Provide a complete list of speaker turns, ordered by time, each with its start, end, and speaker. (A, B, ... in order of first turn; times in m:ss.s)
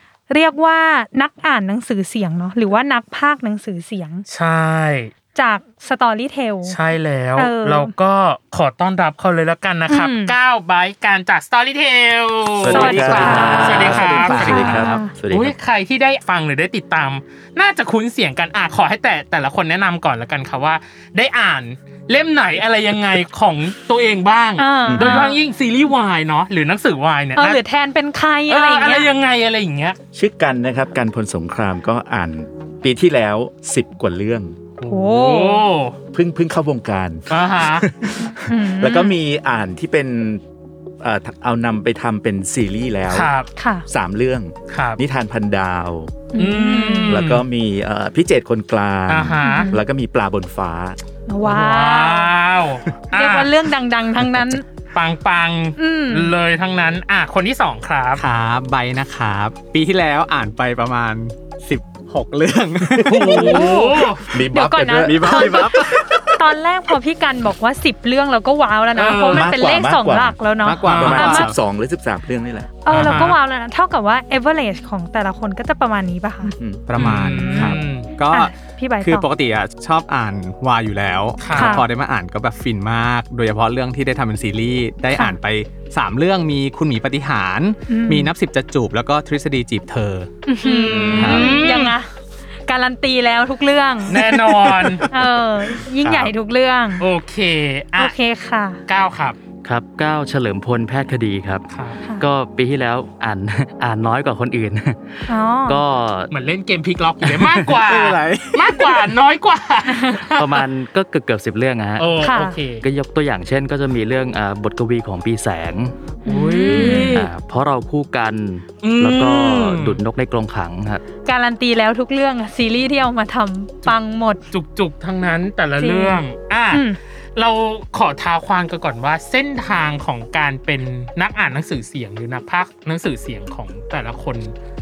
0:00.3-0:04.3 A
0:04.3-0:05.1 B
0:05.4-0:06.8 A
0:06.7-0:14.6 B
0:07.4-0:07.9 A
0:09.9-0:10.4 A
0:12.6-0:15.6 C
0:12.7-0:15.1 A
0:12.8-0:14.8 D
0:12.9-0:15.0 E
0:15.3-0:27.6 B
0:24.6-0:25.4 A
0:24.8-0:25.3 C
0:27.4-0:29.1 A
0:28.5-0:30.0 B
0:30.1-0:34.6 C
0:34.8-0:36.0 B
0:34.9-0:35.6 A
0:36.1-0:40.4 C
0:37.3-0:37.9 B
0:38.0-0:39.2 A
0:41.0-0:43.3 C
0:43.1-0:43.5 B
0:43.6-0:43.9 A
0:43.9-0:46.2 C
0:44.7-0:45.0 B
0:46.3-0:47.2 A
0:46.4-0:47.4 B
0:47.1-0:51.0 C
0:49.1-0:49.7 B
0:49.4-0:49.8 A
0:51.3-0:52.3 A
0:51.4-0:53.5 B
0:53.1-0:54.6 A
0:54.9-0:58.2 B
0:55.8-0:56.3 A
0:58.2-1:03.6 E
1:03.0-1:05.9 C
1:03.1-1:04.2 B
1:03.2-1:11.5 A
1:05.0-1:06.1 E
1:08.9-1:09.5 B
1:09.3-1:10.4 C
1:10.6-1:11.6 E
1:10.8-1:11.3 B
1:11.0-1:12.8 C
1:12.8-1:16.5 A
1:12.9-1:13.4 B
1:16.5-1:17.7 C
1:16.9-1:30.3 E
1:17.0-1:18.1 B
1:17.3-1:17.8 A
1:18.3-1:19.3 A
1:21.4-1:21.8 B
1:21.5-1:21.9 A
1:27.9-1:28.3 A
1:30.5-1:32.1 A
1:30.6-1:32.0 B
1:31.2-1:31.6 E
1:32.7-1:34.2 A
1:34.1-1:35.1 B
1:34.2-1:35.1 E
1:35.1-1:37.1 A
1:37.0-1:38.1 B
1:38.0-1:38.8 A
1:38.9-1:39.4 B
1:39.6-1:41.6 D
1:41.7-1:42.0 B
1:42.2-1:46.3 D
1:45.3-1:45.8 A
1:46.3-1:50.6 B
1:47.4-1:49.0 E
1:49.9-1:50.2 A
1:50.4-1:52.3 D
1:52.0-1:52.8 B
1:52.2-1:52.6 A
1:52.8-1:55.9 D
1:56.2-1:57.3 A
1:56.2-1:57.3 B
1:56.7-2:01.0 D
1:58.8-2:00.0 B
2:01.2-2:04.4 A
2:04.5-2:14.5 B
2:05.8-2:07.0 A